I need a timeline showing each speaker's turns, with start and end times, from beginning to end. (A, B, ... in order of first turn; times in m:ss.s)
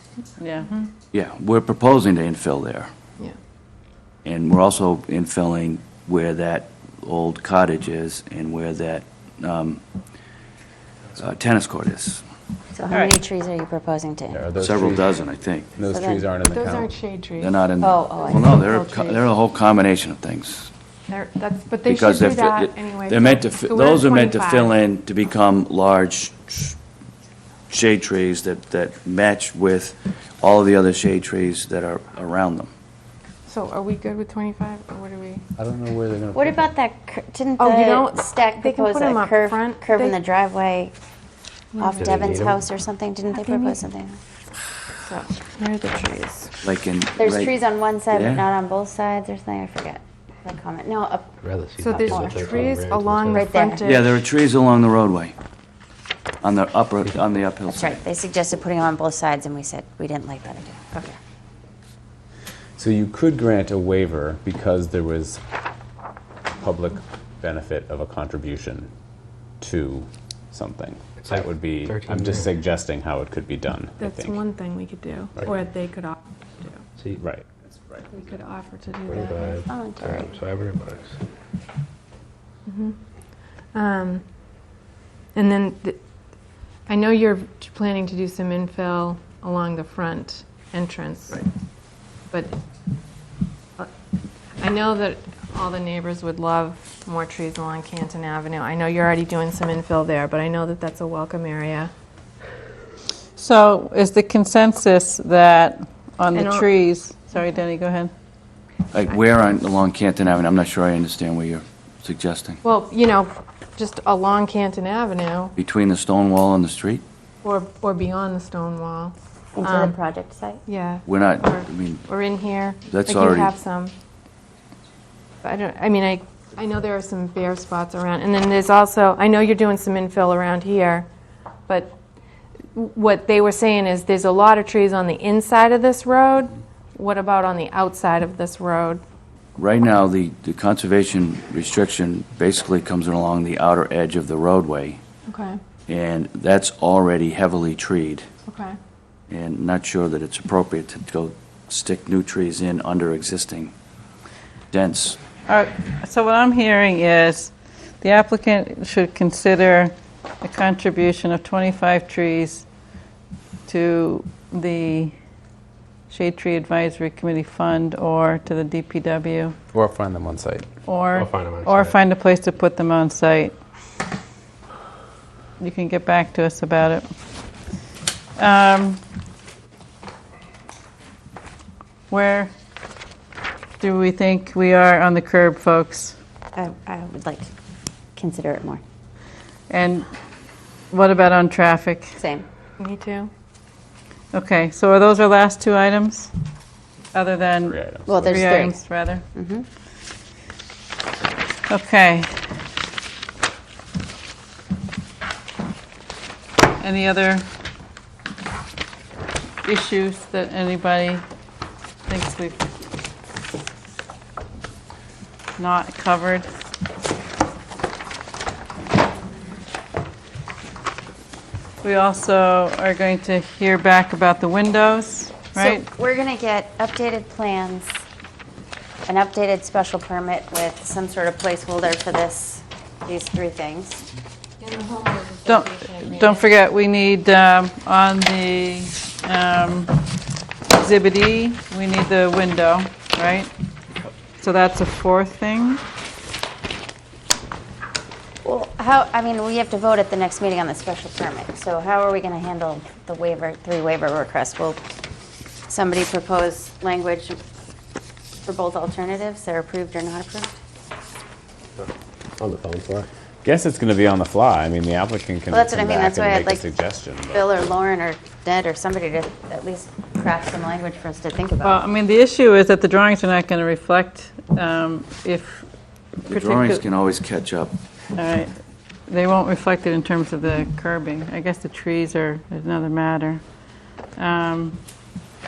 0:00.4-0:00.7 A
0:00.6-0:00.9 B
0:01.1-0:02.9 C
0:04.2-0:09.8 C
0:11.2-0:12.2 C
0:12.7-0:14.4 D
0:14.3-0:15.2 E
0:14.6-0:15.7 C
0:15.8-0:16.9 E
0:15.9-0:16.3 D
0:16.4-0:17.5 B
0:17.4-0:20.7 C
0:17.8-0:18.5 D
0:18.2-0:19.3 B
0:21.1-0:24.8 B
0:21.8-0:26.8 C
0:27.7-0:32.7 C
0:33.5-0:35.4 B
0:35.6-0:36.7 E
0:36.3-0:40.9 D
0:37.6-0:40.2 B
0:41.8-0:42.0 B
0:41.8-0:44.2 D
0:42.0-0:42.7 F
0:45.0-0:46.5 B
0:46.6-0:48.5 C
0:47.2-0:51.4 D
0:51.4-0:53.5 F
0:51.8-0:54.2 B
0:51.9-0:52.7 D
0:53.3-0:53.8 D
0:53.8-0:55.4 C
0:56.4-0:58.0 C
0:57.7-1:01.2 D
1:02.8-1:05.4 E
1:06.6-1:08.9 E
1:09.6-1:14.4 E
1:11.2-1:12.5 F
1:14.0-1:16.8 B
1:17.0-1:17.2 F
1:17.2-1:17.5 E
1:18.1-1:19.6 B
1:19.1-1:21.2 F
1:19.7-1:20.4 D
1:22.7-1:24.3 B
1:25.4-1:31.4 B
1:32.3-1:32.6 B
1:34.6-1:41.9 B
1:43.4-1:48.1 A
1:46.3-1:46.7 B
1:48.9-1:52.6 C
1:52.7-1:55.5 B
1:55.6-1:57.0 C
1:57.4-2:00.0 B
1:59.6-2:00.6 D
2:00.7-2:03.9 B
2:01.0-2:02.0 C
2:02.9-2:03.6 C
2:05.4-2:11.1 B
2:11.7-2:12.0 B
2:12.7-2:19.0 B
2:19.6-2:25.0 C
2:25.3-2:25.6 B
2:25.9-2:28.3 C
2:28.5-2:28.8 B
2:29.3-2:33.7 C
2:34.7-2:35.2 C
2:35.5-2:42.7 A
2:43.7-2:45.2 A
2:46.1-2:49.6 A
2:49.7-2:50.7 E
2:50.9-2:53.6 A
2:51.2-2:51.9 F
2:55.6-2:57.1 A
2:58.4-2:59.0 A
3:02.1-3:02.5 A
3:03.8-3:06.2 A
3:06.6-3:07.5 D
3:08.2-3:08.8 D
3:09.7-3:10.1 A
3:10.9-3:12.2 A
3:12.2-3:12.5 D
3:12.8-3:13.3 B
3:14.3-3:16.3 A
3:17.1-3:19.2 A
3:17.6-3:18.7 E
3:18.1-3:18.8 D
3:19.3-3:19.7 D
3:21.7-3:22.3 A
3:26.8-3:27.5 A
3:29.6-3:31.2 A
3:32.1-3:32.6 A
3:35.6-3:36.5 A
3:41.8-3:45.9 A
3:45.6-3:48.0 D
3:49.1-3:54.0 D
3:54.6-3:56.3 B
3:55.5-4:00.0 A
4:00.7-4:03.5 A
4:04.4-4:05.8 A
4:08.4-4:14.8 D
4:15.7-4:17.4 D
4:18.4-4:20.5 D
4:21.8-4:23.1 F
4:23.4-4:27.4 E
4:25.5-4:26.8 D
4:27.3-4:31.8 D
4:31.6-4:35.7 A
4:36.3-4:36.8 A
4:36.3-4:37.8 C
4:38.2-4:38.5 A
4:39.1-4:43.5 A
4:44.2-4:44.8 A